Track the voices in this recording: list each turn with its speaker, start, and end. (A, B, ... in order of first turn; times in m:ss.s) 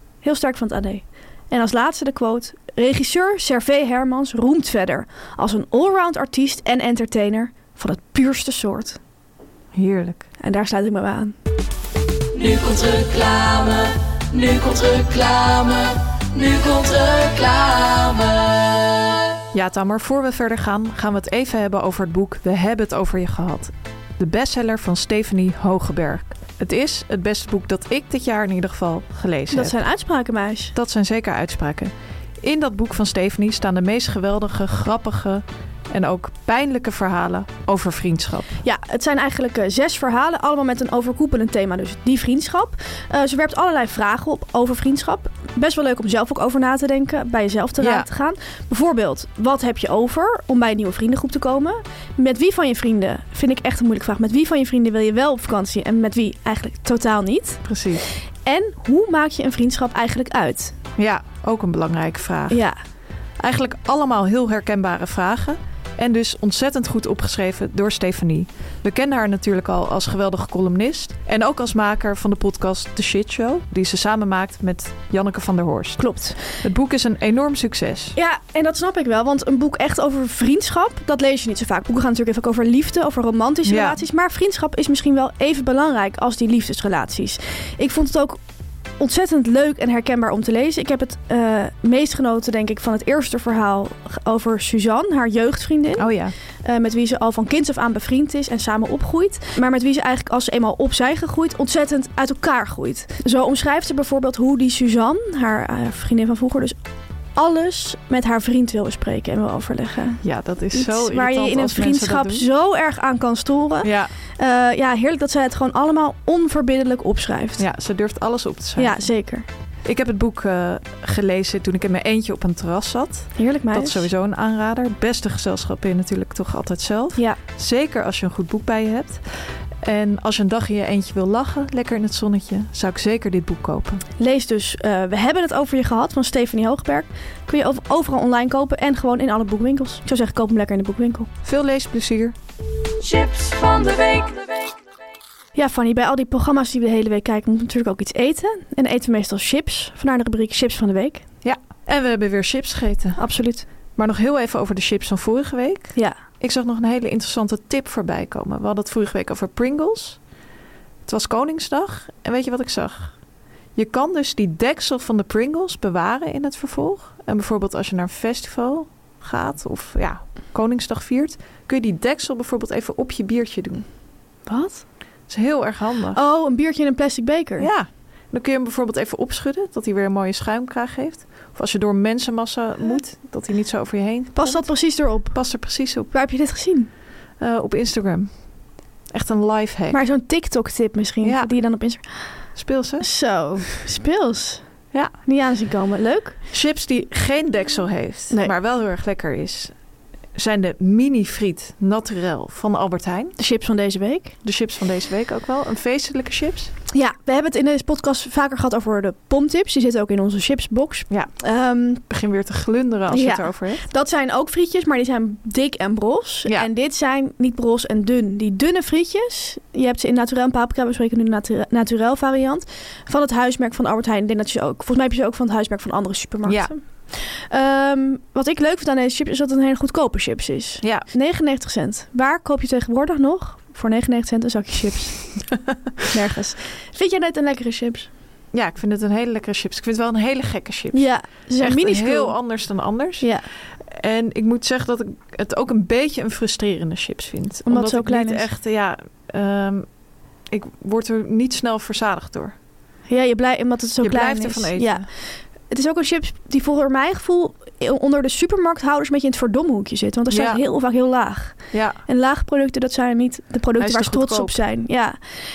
0:00.2-0:09.0 A
0:09.7-0:10.2 B
0:10.4-0:11.3 A
0:12.3-0:19.1 C
0:19.5-0:29.8 B
0:29.5-0:30.7 A
0:30.7-0:38.6 B
0:38.6-0:57.6 A
0:47.8-0:48.1 B
0:57.6-0:58.0 B
0:58.4-1:00.7 A
1:01.0-1:02.6 B
1:02.5-1:02.8 A
1:03.4-1:18.2 B
1:16.0-1:16.4 A
1:18.2-1:28.4 A
1:23.6-1:24.0 B
1:29.0-1:46.8 A
1:36.0-1:36.3 B
1:47.3-1:57.6 A
1:50.2-1:52.5 B
1:53.8-1:54.1 B
1:57.6-1:59.1 B
1:58.8-1:59.4 A
1:59.8-2:09.2 B
2:03.4-2:04.1 A
2:09.8-2:14.0 B
2:14.2-2:21.3 A
2:21.4-2:22.3 B
2:23.0-2:24.7 C
2:25.5-2:31.2 A
2:31.4-2:33.3 B
2:33.2-2:33.7 A
2:33.9-2:40.2 B
2:41.0-2:43.2 B
2:43.7-2:53.8 B
2:54.4-2:54.8 A
2:55.3-2:56.2 B
2:56.1-2:57.7 A
2:57.6-3:06.1 B
3:04.3-3:06.9 A
3:07.4-3:08.4 B
3:09.1-3:10.0 B
3:09.9-3:12.5 A
3:11.2-3:11.5 B
3:12.5-3:13.1 B
3:13.0-3:14.6 A
3:15.2-3:16.4 A
3:16.5-3:19.7 B
3:20.3-3:23.4 B
3:23.4-3:24.3 A
3:24.4-3:26.7 B
3:26.9-3:32.0 A
3:32.0-3:33.8 B
3:33.1-3:55.5 A
3:46.4-3:46.7 B
3:50.8-3:51.1 B
3:56.1-3:58.1 A
3:58.5-4:09.9 B
4:00.9-4:03.5 A
4:07.6-4:08.5 A
4:10.5-4:12.5 B
4:13.1-4:25.2 A
4:14.0-4:15.1 B
4:20.3-4:20.6 B
4:21.7-4:22.0 B
4:23.8-4:24.6 B